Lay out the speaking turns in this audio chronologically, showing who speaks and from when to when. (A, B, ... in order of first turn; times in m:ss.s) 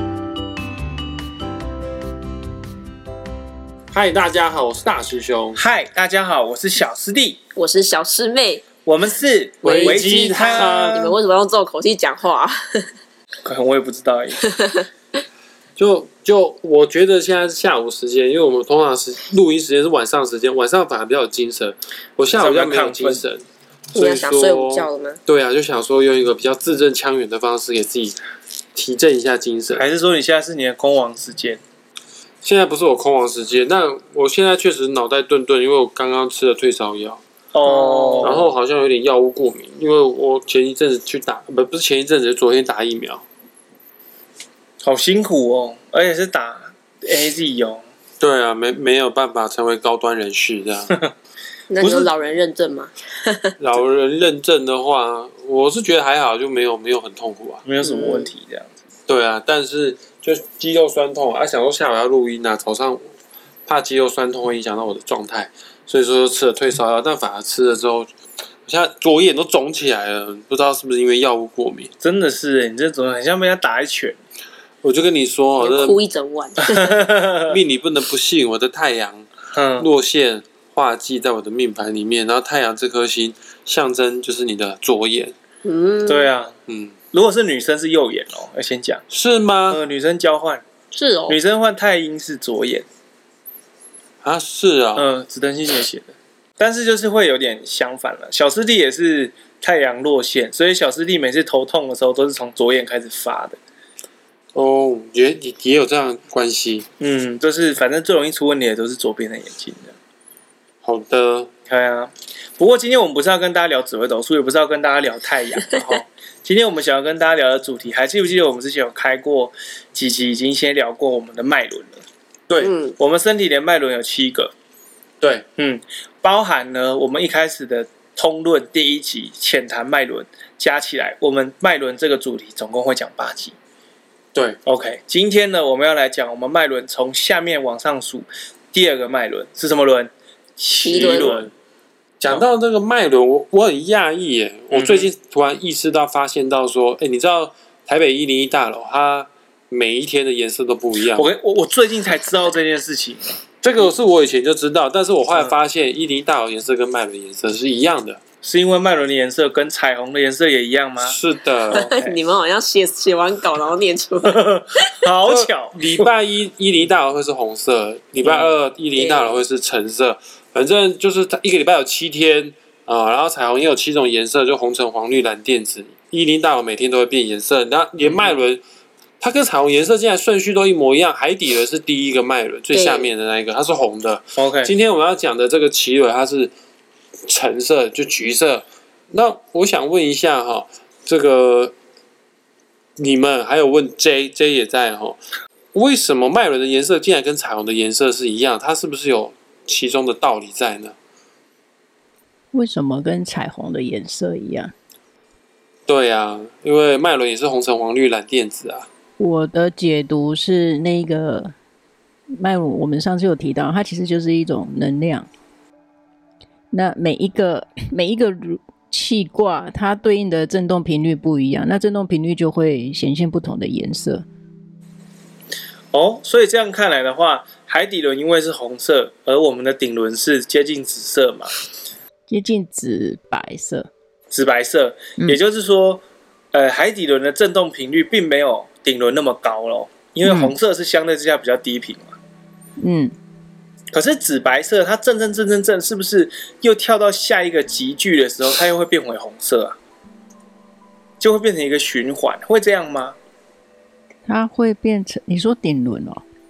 0:03.9-0:05.6 A
0:05.6-0:07.4 B
0:07.6-0:08.6 C
0:08.8-0:11.0 B
0:09.6-0:11.2 A
0:09.6-0:12.9 C
0:13.4-0:14.5 B
0:14.5-0:14.8 C
0:15.8-0:28.2 A
0:22.3-0:23.2 B
0:23.9-0:25.2 C
0:28.7-0:29.8 A
0:29.7-0:31.6 B
0:32.4-0:37.2 A
0:37.5-0:38.4 B
0:37.6-0:38.4 C
0:38.2-0:43.2 A
0:44.8-0:47.8 B
0:48.2-0:50.9 A
0:51.7-0:53.5 C
0:51.8-0:52.1 B
0:53.6-0:57.6 A
0:57.6-0:58.8 B
0:57.8-0:58.3 C
0:59.1-1:03.0 A
1:03.6-1:08.1 A
1:08.6-1:11.9 A
1:12.0-1:14.2 B
1:14.8-1:16.0 A
1:15.6-1:17.0 C
1:16.6-1:17.6 B
1:17.5-1:19.3 A
1:19.5-1:19.9 B
1:19.8-1:25.3 A
1:25.6-1:26.3 C
1:26.1-1:26.5 B
1:26.7-1:26.9 A
1:27.1-1:29.0 B
1:29.1-1:29.8 A
1:29.7-1:30.6 B
1:30.9-1:31.4 C
1:31.3-1:32.8 B
1:34.2-1:35.0 A
1:35.0-1:43.6 B
1:44.5-1:46.8 A
1:47.0-1:49.9 B
1:50.8-1:51.5 A
1:51.7-2:02.0 B
2:02.6-2:03.0 C
2:03.0-2:04.5 B
2:05.2-2:05.4 A
2:05.6-2:13.5 B
2:14.3-2:14.6 A
2:14.6-2:21.5 B
2:20.8-2:21.4 C
2:20.9-2:21.5 A
2:22.2-2:31.3 A
2:24.7-2:25.1 B
2:31.1-2:33.4 B
2:33.6-2:38.2 A
2:38.4-2:41.2 B
2:41.0-2:41.9 A
2:41.7-2:42.2 B
2:41.7-2:45.1 C
2:44.2-2:45.8 B
2:45.2-2:58.6 A
2:49.0-2:49.4 C
2:59.2-3:06.5 A
3:02.7-3:03.1 C
3:04.4-3:04.7 B
3:07.2-3:11.7 A
3:13.0-3:15.2 A
3:15.7-3:21.0 A
3:22.5-3:24.7 D
3:25.9-3:28.9 A
3:29.2-3:31.5 D
3:32.3-3:35.3 D
3:36.7-3:44.2 D
3:45.9-3:51.5 B
3:52.3-3:53.9 D
3:54.3-3:56.0 B
3:56.5-4:02.2 B
4:00.2-4:00.5 D
4:02.8-4:03.1 D
4:03.9-4:09.8 B
4:11.2-4:13.2 B
4:14.2-4:16.2 D